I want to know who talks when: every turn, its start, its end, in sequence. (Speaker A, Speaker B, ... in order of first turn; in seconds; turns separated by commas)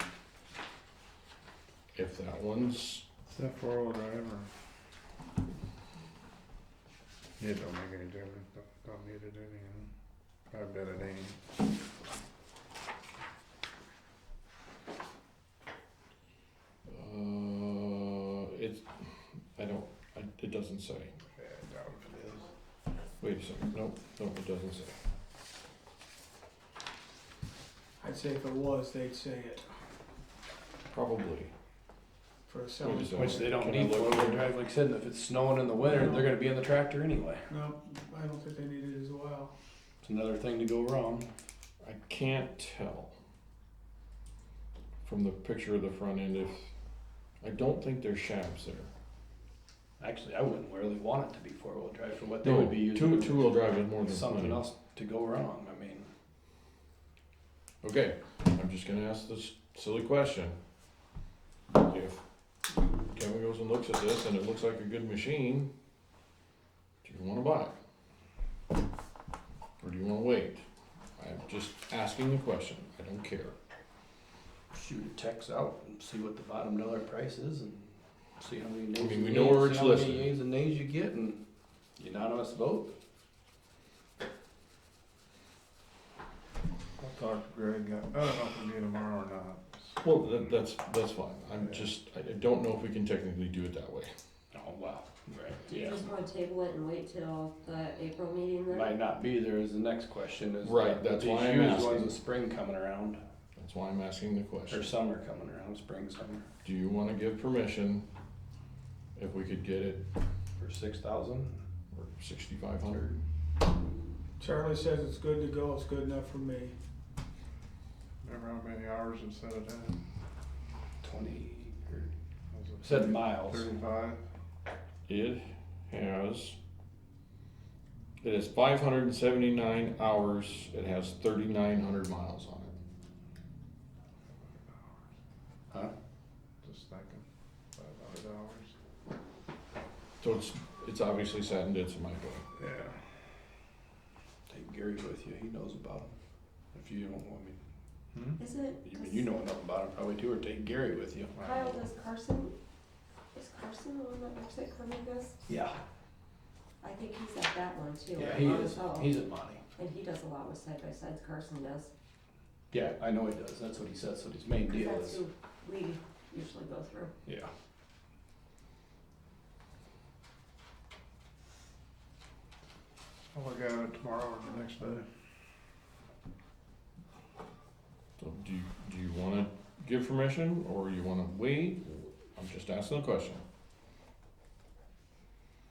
Speaker A: 1.9-3.0, Speaker B: 3.3-4.5, Speaker B: 7.4-9.9, Speaker B: 10.5-11.4, Speaker A: 16.9-18.9, Speaker A: 19.5-21.1, Speaker B: 21.3-22.5, Speaker A: 23.2-24.9, Speaker C: 28.0-29.7, Speaker A: 30.9-31.5, Speaker C: 32.5-33.5, Speaker A: 32.8-34.5, Speaker D: 33.1-37.4, Speaker C: 37.5-39.5, Speaker D: 40.0-41.3, Speaker A: 41.8-43.1, Speaker A: 45.0-46.7, Speaker A: 47.4-48.9, Speaker D: 50.0-56.1, Speaker A: 52.4-54.6, Speaker A: 57.8-60.6, Speaker A: 61.7-62.2, Speaker A: 63.1-65.7, Speaker A: 67.0-67.7, Speaker A: 69.8-70.6, Speaker A: 71.2-73.5, Speaker D: 74.7-81.4, Speaker A: 78.9-80.3, Speaker D: 82.0-82.9, Speaker B: 87.0-90.0, Speaker A: 90.0-94.1, Speaker D: 94.5-96.0, Speaker E: 95.7-99.0, Speaker D: 98.7-103.2, Speaker A: 100.6-102.2, Speaker A: 103.6-104.9, Speaker D: 104.7-106.5, Speaker A: 106.6-108.0, Speaker A: 109.2-110.0, Speaker D: 110.6-111.6, Speaker A: 111.9-113.2, Speaker C: 114.4-116.8, Speaker B: 118.2-120.0, Speaker D: 121.0-122.1, Speaker B: 122.5-124.2, Speaker D: 122.8-123.7, Speaker A: 125.1-126.5, Speaker A: 128.2-132.7, Speaker B: 136.6-137.2, Speaker B: 137.7-138.7, Speaker A: 140.2-142.4, Speaker B: 142.5-143.0, Speaker D: 144.5-146.1, Speaker D: 146.7-147.6, Speaker B: 148.1-148.4, Speaker E: 148.4-149.3, Speaker D: 148.8-151.4, Speaker B: 151.3-151.8, Speaker E: 151.4-152.5, Speaker E: 153.3-155.4, Speaker D: 155.5-155.8, Speaker E: 156.8-159.2, Speaker D: 158.1-159.6, Speaker E: 159.8-161.9, Speaker D: 162.7-165.2, Speaker E: 164.7-167.1, Speaker B: 173.3-175.1, Speaker A: 178.2-183.4